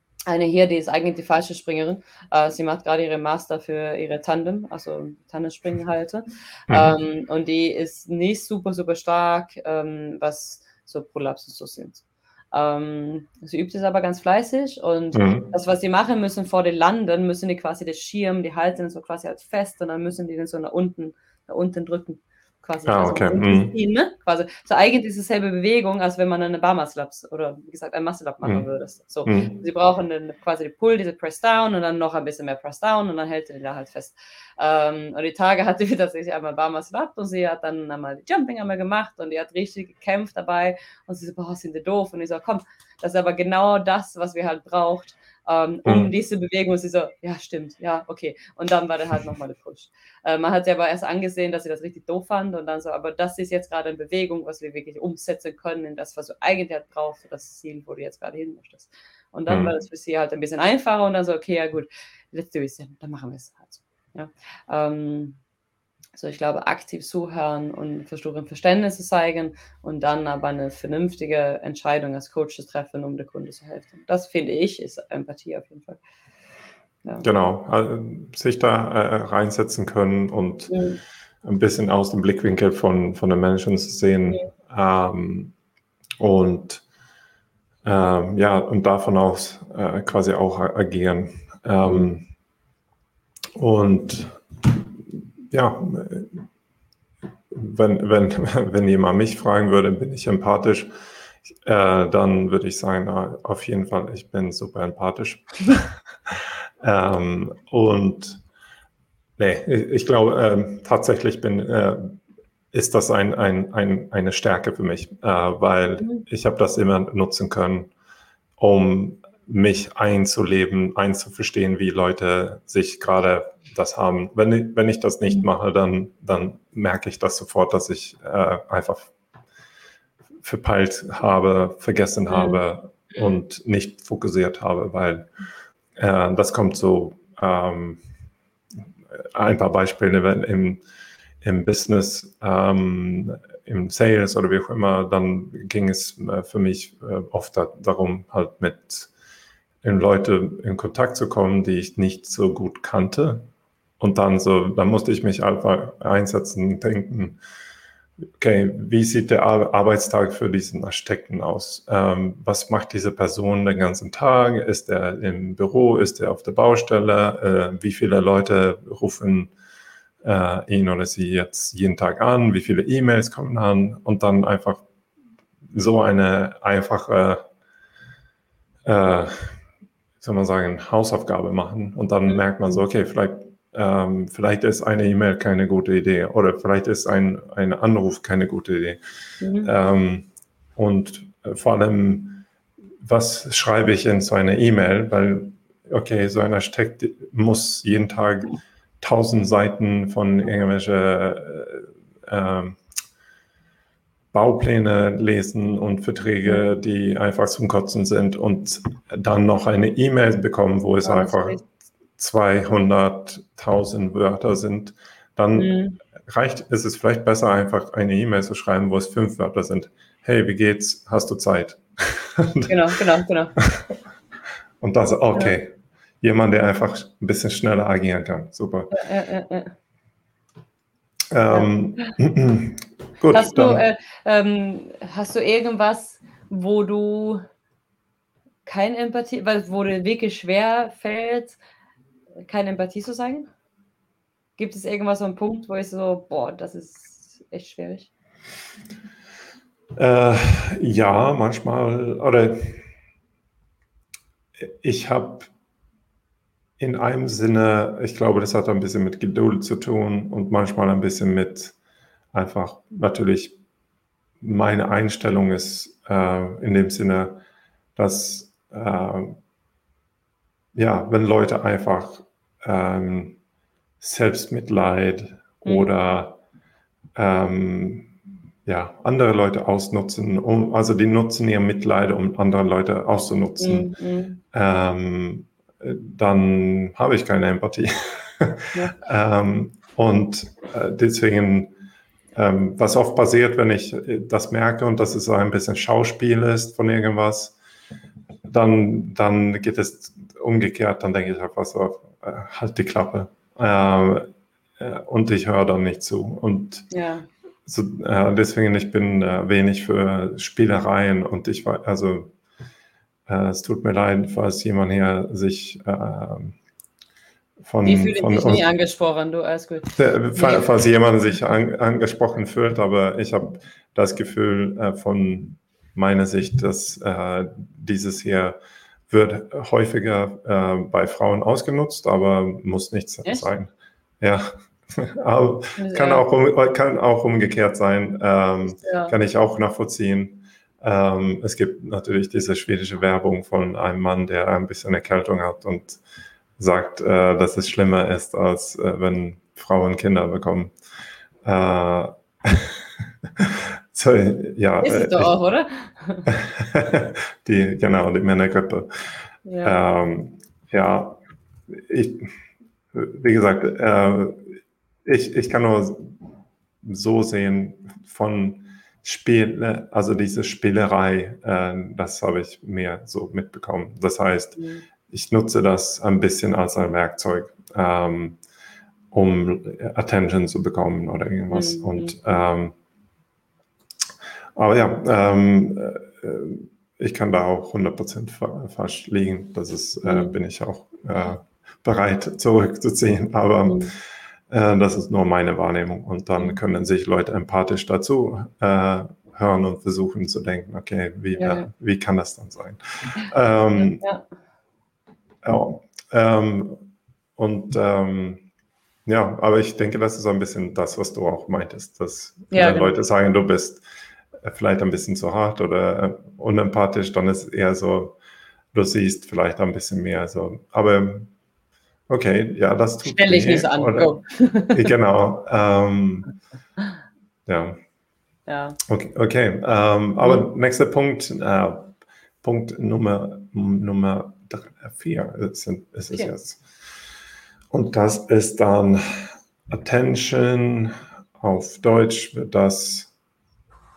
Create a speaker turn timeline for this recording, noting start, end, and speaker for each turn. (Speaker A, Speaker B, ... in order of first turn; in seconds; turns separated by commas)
Speaker A: 0.3-65.4, Speaker B: 6.7-7.0, Speaker B: 15.1-15.5, Speaker B: 22.9-23.7, Speaker B: 29.3-29.6, Speaker B: 45.9-46.1, Speaker B: 59.5-59.7, Speaker A: 66.2-76.0, Speaker B: 77.2-80.8, Speaker A: 80.7-81.0, Speaker B: 81.4-85.5, Speaker B: 86.2-86.8, Speaker B: 87.8-92.3, Speaker B: 93.6-96.4, Speaker B: 97.5-100.9, Speaker B: 101.7-108.4, Speaker B: 109.4-112.2, Speaker B: 112.7-117.9, Speaker B: 118.6-129.1, Speaker B: 130.4-135.3, Speaker A: 132.3-132.6, Speaker B: 136.0-138.0, Speaker B: 139.2-140.8, Speaker B: 141.4-149.1, Speaker B: 149.8-153.5, Speaker B: 154.0-157.4, Speaker B: 158.4-169.5, Speaker B: 170.2-174.8, Speaker B: 175.7-177.4, Speaker B: 178.8-179.6, Speaker B: 180.2-189.0, Speaker A: 189.4-189.7, Speaker B: 189.6-192.5, Speaker B: 193.0-202.8, Speaker B: 204.3-211.6, Speaker A: 211.1-211.6, Speaker B: 212.2-215.7, Speaker A: 215.6-216.0, Speaker B: 216.3-222.8, Speaker A: 222.7-223.6, Speaker B: 223.6-223.9, Speaker B: 224.8-228.9, Speaker A: 228.9-229.7, Speaker B: 231.3-233.8, Speaker A: 231.5-232.1, Speaker A: 233.3-237.4, Speaker A: 238.7-241.6, Speaker A: 242.5-243.5, Speaker A: 244.6-248.1, Speaker B: 250.0-252.8, Speaker B: 254.6-255.5, Speaker B: 256.8-261.8, Speaker B: 262.3-263.6, Speaker B: 264.4-267.4, Speaker B: 268.0-269.4, Speaker B: 270.8-273.4, Speaker B: 274.0-276.4, Speaker B: 277.1-278.1, Speaker B: 278.7-283.9, Speaker A: 283.6-284.4, Speaker B: 284.5-291.7, Speaker B: 292.4-297.6, Speaker B: 298.5-304.3, Speaker B: 304.8-306.9, Speaker A: 306.9-307.3, Speaker B: 307.7-312.3, Speaker B: 313.3-316.6, Speaker B: 317.6-318.7, Speaker A: 317.8-320.6, Speaker B: 319.9-328.6, Speaker B: 329.1-346.0, Speaker A: 335.8-336.2, Speaker A: 338.8-339.1, Speaker B: 346.6-350.8, Speaker B: 351.4-355.3, Speaker A: 354.8-356.3, Speaker B: 356.3-358.9, Speaker A: 359.5-359.8, Speaker B: 359.6-362.3, Speaker B: 362.9-366.2, Speaker B: 366.8-378.4, Speaker A: 374.6-374.8, Speaker B: 379.1-382.8, Speaker A: 381.5-382.2, Speaker B: 384.6-394.0, Speaker A: 390.0-390.4, Speaker A: 393.7-393.9, Speaker B: 394.5-404.0, Speaker A: 401.4-401.7, Speaker A: 403.8-404.2, Speaker B: 405.4-406.9, Speaker B: 407.4-408.4, Speaker B: 409.1-413.8, Speaker A: 412.5-412.9, Speaker B: 414.4-418.2, Speaker B: 418.7-421.3, Speaker B: 422.1-424.1, Speaker A: 423.0-424.9, Speaker B: 424.7-426.3, Speaker B: 427.5-427.8, Speaker A: 428.5-428.8, Speaker B: 428.9-436.6, Speaker B: 437.7-443.1